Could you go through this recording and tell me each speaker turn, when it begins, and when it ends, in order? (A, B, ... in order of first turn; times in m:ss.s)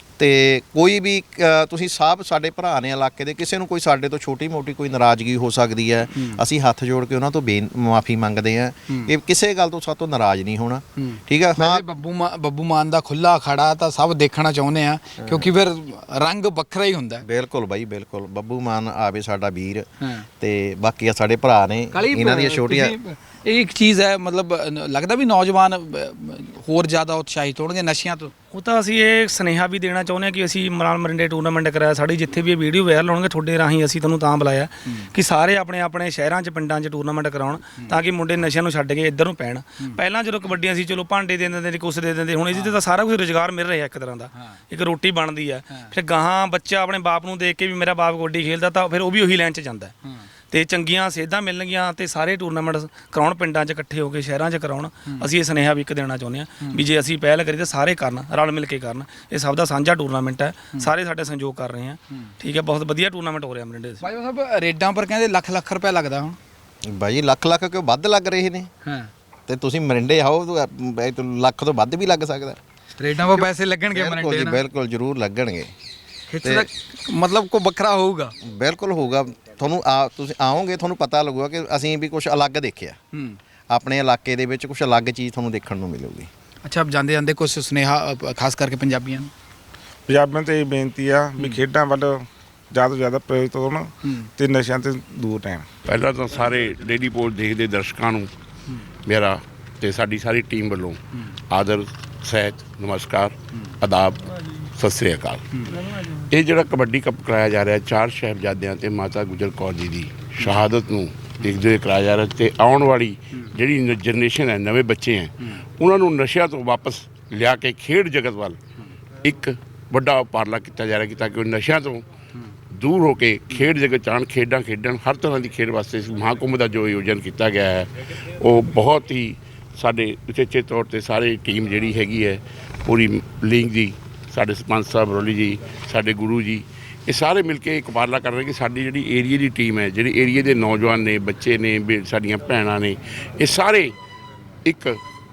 0:00.2-0:11.8 A
0:11.0-0:17.2 B
0:15.2-0:15.5 A
0:17.2-0:19.9 A
0:20.4-0:23.0 A
0:21.9-0:28.3 B
0:28.5-0:49.9 C
0:44.4-0:44.6 B
0:50.5-1:04.0 C
1:04.0-1:06.4 B
1:06.8-1:08.7 A
1:08.8-1:09.1 B
1:09.5-1:12.6 A
1:13.0-1:14.6 B
1:13.3-1:15.7 A
1:16.3-1:18.3 B
1:16.4-1:16.7 A
1:18.4-1:23.0 A
1:23.1-1:23.4 B
1:23.7-1:26.3 A
1:26.6-1:29.3 B
1:30.1-1:35.7 D
1:35.9-1:38.3 E
1:39.1-1:41.0 E
1:41.5-1:58.6 E
1:59.2-2:02.0 E
2:02.8-2:24.0 E
2:24.6-2:25.0 E